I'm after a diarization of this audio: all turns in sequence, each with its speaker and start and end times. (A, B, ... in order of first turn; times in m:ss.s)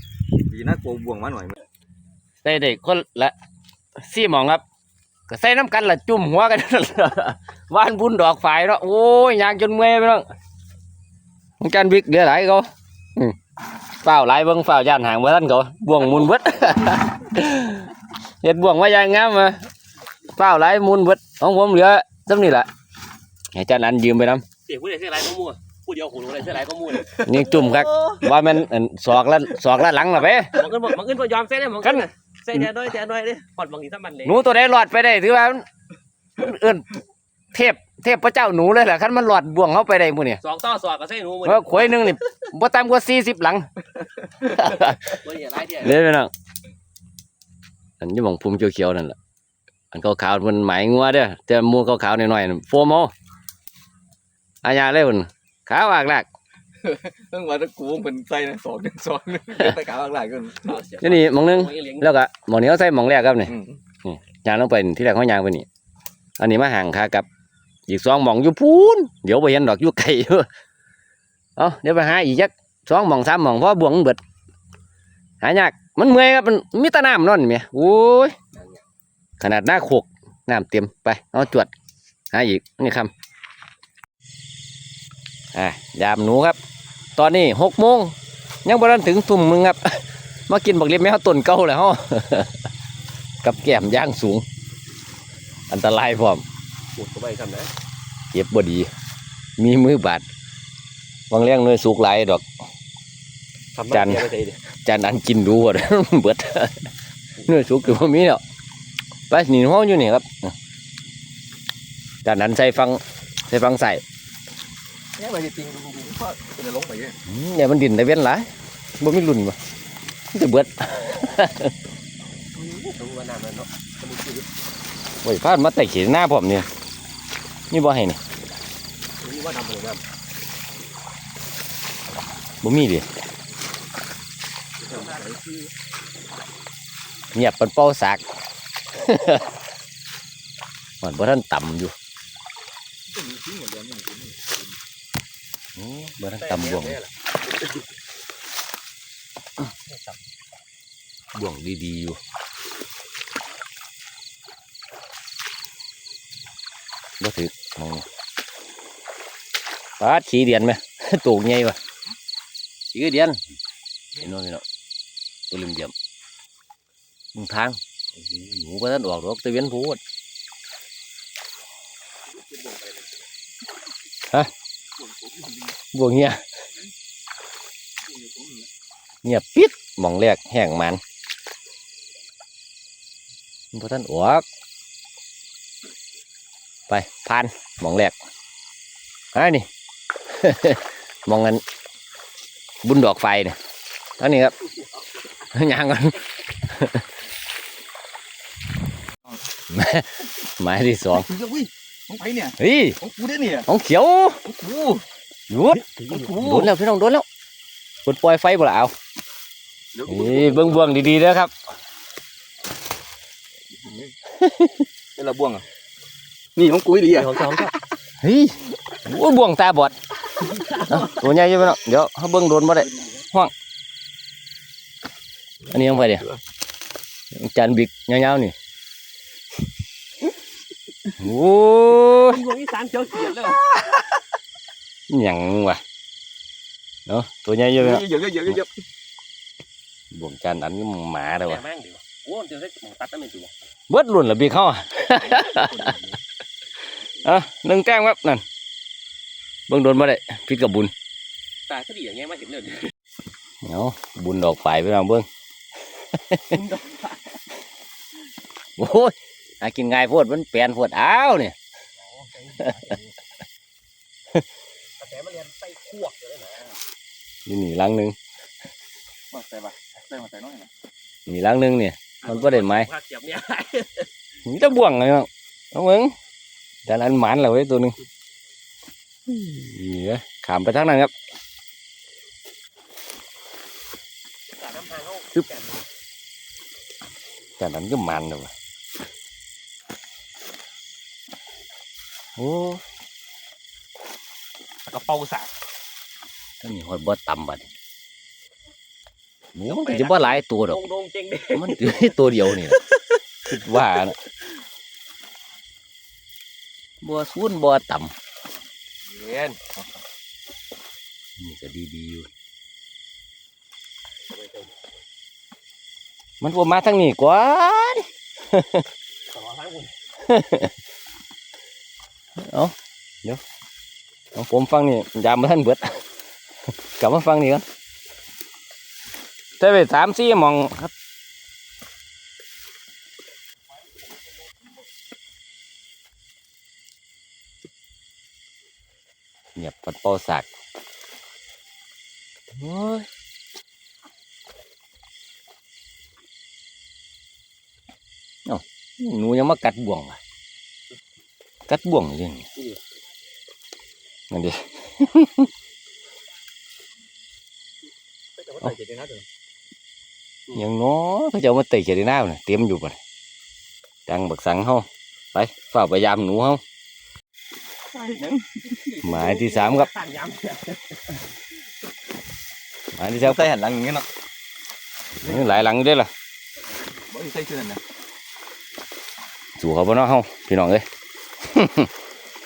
0:00.4-0:01.6 A
0:02.4-0:03.4 B
0:04.0-0:04.6 B
0:05.3-0:10.3 B
0:11.6-0:13.4 B
0:14.0-0:17.9 B
0:18.4-0:19.6 B
0:20.4-0:22.7 B
0:23.5-0:24.4 B
0:24.7-0:28.1 C
0:27.2-0:30.6 B
0:30.5-0:34.4 C
0:34.2-0:35.6 B
0:36.4-0:36.9 B
0:37.5-0:40.4 B
0:40.4-0:42.2 C
0:41.4-0:43.7 B
0:44.4-0:45.2 B
0:45.0-0:46.0 C
0:45.8-0:46.3 B
0:48.0-0:49.2 B
0:49.9-0:53.1 B
0:54.6-0:56.3 B
0:56.8-1:00.8 A
1:00.6-1:02.1 C
1:01.0-1:03.5 B
1:03.5-1:03.8 A
1:04.0-1:05.7 B
1:06.4-1:07.3 B
1:07.9-1:10.5 B
1:11.6-1:14.2 B
1:15.4-1:18.4 B
1:18.6-1:18.8 A
1:19.4-1:21.7 B
1:22.3-1:23.1 B
1:25.5-1:26.6 B
1:27.2-1:28.1 B
1:28.6-1:32.6 B
1:33.4-1:34.4 B
1:35.7-1:36.4 B
1:37.0-1:37.7 C
1:38.3-1:38.9 B
1:39.6-1:40.2 B
1:41.3-1:42.4 B
1:43.7-1:44.6 C
1:43.9-1:44.3 B
1:44.8-1:46.9 B
1:47.4-1:48.4 B
1:49.3-1:50.5 B
1:52.2-1:54.0 B
1:55.2-1:57.2 A
1:57.3-1:58.5 B
1:59.0-1:59.6 B
2:00.3-2:01.7 B
2:02.5-2:04.5 C
2:05.2-2:06.7 B
2:07.7-2:08.2 B
2:09.2-2:10.0 C
2:12.6-2:13.1 B
2:14.8-2:15.6 A
2:14.9-2:15.4 C
2:17.3-2:18.2 B
2:19.0-2:19.4 B
2:21.0-2:21.9 B
2:23.1-2:24.7 A
2:25.8-2:27.0 B
2:26.4-2:27.0 C
2:31.3-2:32.2 B
2:37.2-2:38.0 B
2:40.0-2:41.8 B
2:42.9-2:43.4 B
2:44.2-2:44.6 B
2:45.5-2:45.9 B
2:47.4-2:50.0 B
2:52.3-2:53.2 A
2:55.0-2:55.8 A
2:55.9-2:56.4 B
2:58.0-2:58.7 A
2:59.2-3:01.0 B
3:03.7-3:04.4 B
3:06.9-3:08.1 B
3:09.3-3:09.7 B
3:10.3-3:11.6 B
3:12.8-3:13.6 B
3:14.2-3:14.5 B
3:15.5-3:17.0 B
3:19.7-3:21.3 B
3:21.1-3:23.7 A
3:22.6-3:23.0 B
3:23.7-3:24.4 B
3:24.4-3:25.0 A
3:25.5-3:27.2 B
3:25.8-3:26.4 C
3:26.1-3:26.7 A
3:28.0-3:28.9 B
3:29.9-3:31.0 A
3:30.1-3:31.5 B
3:33.7-3:34.1 A
3:34.4-3:34.8 B
3:35.2-3:35.6 A
3:36.6-3:37.7 A
3:37.1-3:37.7 C
3:38.2-3:40.0 B
3:40.6-3:41.0 C
3:40.8-3:43.5 B
3:45.7-3:46.3 B
3:47.3-3:48.5 B
3:51.2-3:52.4 B
3:52.2-3:53.7 C
3:55.1-3:55.8 B
3:57.1-3:58.0 B
3:57.8-3:58.8 A
4:00.1-4:01.6 B
4:01.4-4:03.5 C
4:03.9-4:05.9 B
4:05.4-4:06.0 C
4:07.2-4:08.4 B
4:09.7-4:10.9 B
4:11.7-4:12.9 C
4:13.6-4:15.3 B
4:16.3-4:16.6 B
4:16.6-4:17.2 C
4:18.8-4:21.6 B
4:22.1-4:23.1 C
4:25.0-4:26.8 C
4:27.5-4:28.2 B
4:29.3-4:30.7 A
4:31.3-4:32.9 B
4:32.2-4:34.1 C
4:34.5-4:36.1 B
4:36.9-4:38.0 B
4:39.3-4:41.1 B
4:44.5-4:45.9 C
4:47.6-4:48.5 B
4:52.4-4:52.8 B
4:54.9-4:55.5 C
4:56.6-4:57.7 B
4:59.6-5:00.8 B
4:59.7-5:01.8 C
5:01.5-5:02.8 B
5:03.5-5:04.2 B
5:07.0-5:08.1 B
5:09.1-5:09.7 A
5:11.4-5:12.3 B
5:14.4-5:14.6 C
5:16.4-5:18.8 B
5:19.3-5:19.9 C
5:20.3-5:20.7 B
5:22.4-5:23.4 B
5:24.4-5:26.0 B
5:27.0-5:27.6 B
5:29.6-5:30.9 B
5:39.6-5:40.5 B
5:42.6-5:43.1 B
5:48.5-5:50.2 B
5:51.7-5:52.5 B
5:54.3-5:55.5 B
5:58.4-5:59.2 A
6:00.5-6:03.0 B
6:04.1-6:06.6 B
6:07.9-6:09.2 A
6:09.0-6:09.9 B
6:09.1-6:11.2 C
6:13.0-6:13.5 B
6:13.2-6:14.1 A
6:15.2-6:16.1 B
6:15.2-6:15.6 A
6:17.0-6:17.8 A
6:19.6-6:20.8 B
6:21.4-6:21.9 B